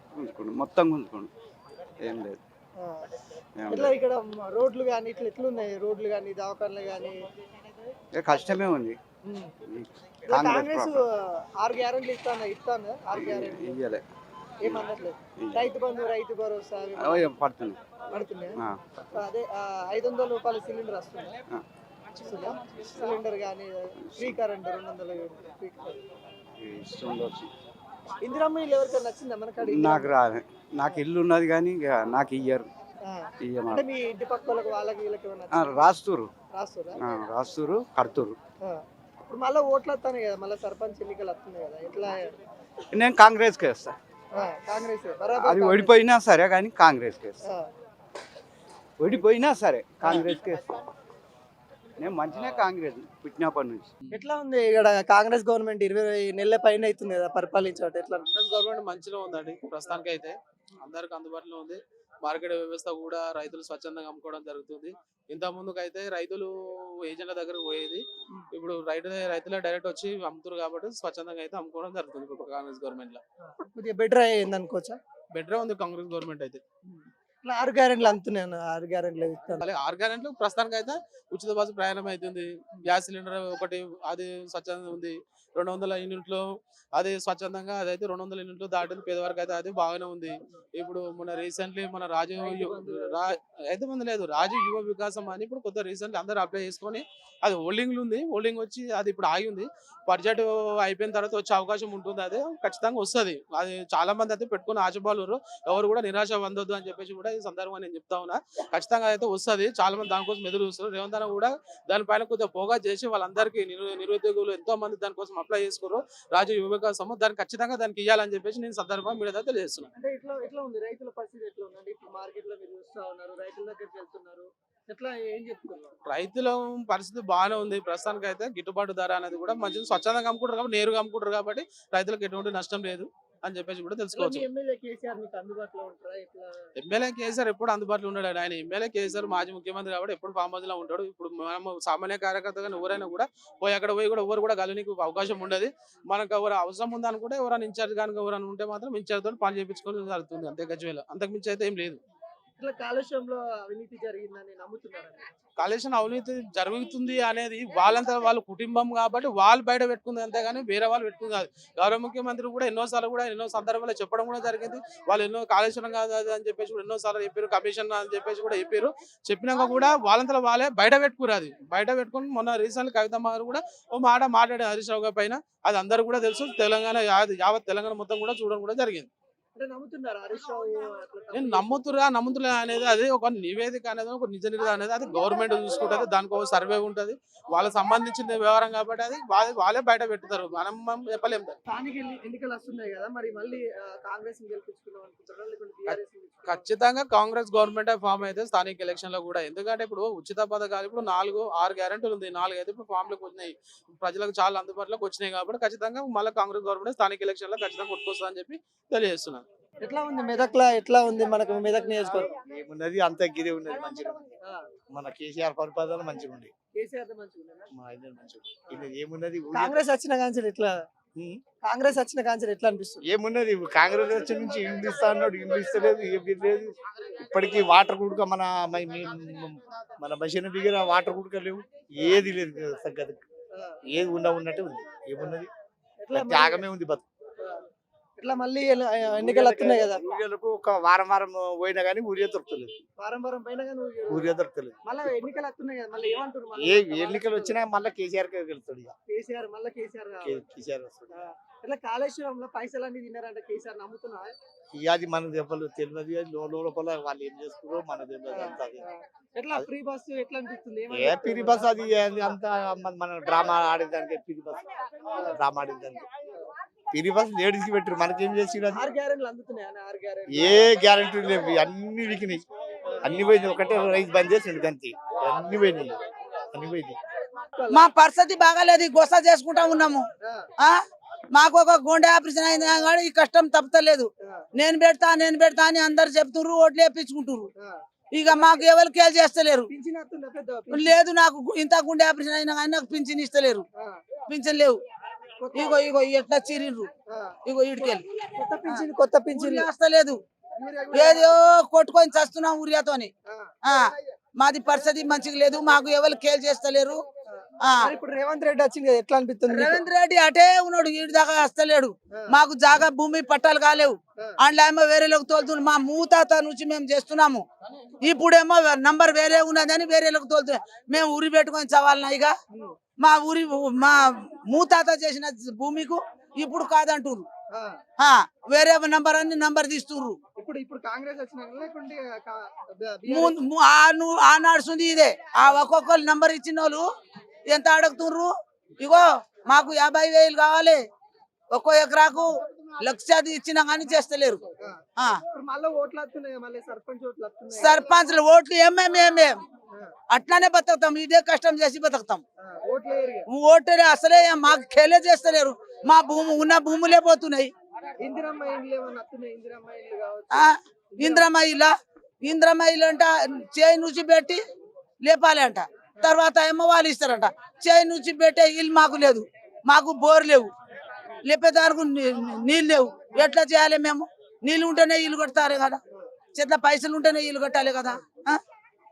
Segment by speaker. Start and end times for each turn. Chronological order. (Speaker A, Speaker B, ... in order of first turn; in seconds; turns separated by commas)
Speaker A: 0.1-1.3, Speaker A: 2.0-2.4, Speaker B: 2.8-3.1, Speaker A: 3.6-3.9, Speaker B: 3.7-7.2, Speaker A: 8.1-9.0, Speaker B: 9.2-9.5, Speaker A: 9.6-11.0, Speaker B: 10.3-13.8, Speaker A: 13.1-14.0, Speaker B: 14.6-17.3, Speaker A: 15.4-15.7, Speaker A: 17.0-18.0, Speaker B: 18.1-18.6, Speaker B: 19.1-21.3, Speaker B: 22.1-26.0, Speaker A: 24.0-24.4, Speaker A: 26.6-27.5, Speaker B: 28.2-30.1, Speaker A: 29.6-32.7, Speaker B: 33.0-35.7, Speaker A: 33.4-33.8, Speaker A: 35.5-36.3, Speaker B: 36.5-37.0, Speaker A: 37.0-38.4, Speaker B: 38.6-42.3, Speaker A: 42.9-44.0, Speaker B: 44.3-46.0, Speaker A: 45.4-47.4, Speaker A: 49.0-50.6, Speaker A: 52.0-53.9, Speaker B: 54.1-58.3, Speaker C: 58.3-66.5, Speaker C: 67.0-73.2, Speaker B: 73.5-75.0, Speaker C: 75.3-76.6, Speaker B: 76.9-79.7, Speaker C: 79.6-86.4, Speaker C: 87.0-119.9, Speaker B: 92.4-93.3, Speaker B: 120.0-125.9, Speaker C: 126.0-134.4, Speaker B: 134.1-136.7, Speaker C: 136.8-152.0, Speaker B: 152.6-155.2, Speaker C: 155.6-179.1, Speaker B: 179.6-181.7, Speaker C: 181.3-191.5, Speaker B: 191.7-196.7, Speaker C: 195.9-209.4, Speaker B: 209.8-212.3, Speaker D: 212.4-214.4, Speaker D: 214.9-216.5, Speaker B: 216.8-217.7, Speaker D: 217.7-219.8, Speaker B: 219.5-220.7, Speaker D: 221.2-221.4, Speaker B: 221.6-223.0, Speaker D: 223.1-233.2, Speaker D: 233.9-235.5, Speaker B: 236.0-236.6, Speaker D: 236.1-237.1, Speaker B: 238.2-240.0, Speaker D: 239.2-242.8, Speaker B: 243.0-244.2, Speaker D: 244.1-244.8, Speaker B: 244.8-247.6, Speaker D: 246.6-248.9, Speaker B: 249.1-250.4, Speaker D: 250.2-251.2, Speaker B: 251.1-254.3, Speaker D: 254.7-258.8, Speaker B: 258.3-261.8, Speaker D: 260.9-264.7, Speaker D: 265.2-266.1, Speaker D: 266.9-268.8, Speaker B: 268.7-270.6, Speaker D: 270.3-272.4, Speaker D: 273.0-277.0, Speaker B: 277.4-277.8, Speaker E: 277.7-280.1, Speaker E: 281.3-287.5, Speaker E: 288.1-289.7, Speaker B: 288.3-288.6, Speaker B: 289.7-291.0, Speaker E: 290.7-293.6, Speaker E: 294.3-294.8, Speaker B: 295.4-295.8, Speaker E: 295.5-296.9, Speaker B: 297.1-299.7, Speaker E: 297.4-298.0, Speaker E: 298.7-300.2, Speaker B: 300.6-301.4, Speaker E: 300.9-303.1, Speaker B: 303.3-303.5, Speaker E: 303.6-307.0, Speaker B: 307.4-309.8, Speaker E: 307.6-307.9, Speaker E: 309.5-317.4, Speaker E: 318.0-322.3, Speaker E: 323.0-327.3, Speaker B: 327.5-327.8, Speaker E: 328.0-330.2, Speaker B: 330.4-333.4, Speaker E: 333.1-336.9, Speaker E: 337.5-340.8, Speaker E: 341.5-342.3, Speaker E: 342.8-344.4, Speaker B: 344.4-347.9, Speaker E: 347.5-349.4, Speaker E: 350.1-352.2, Speaker B: 352.4-353.3, Speaker E: 353.3-357.5, Speaker B: 358.0-361.3, Speaker E: 360.3-364.4, Speaker E: 365.0-370.5, Speaker E: 371.2-375.8, Speaker E: 376.3-378.4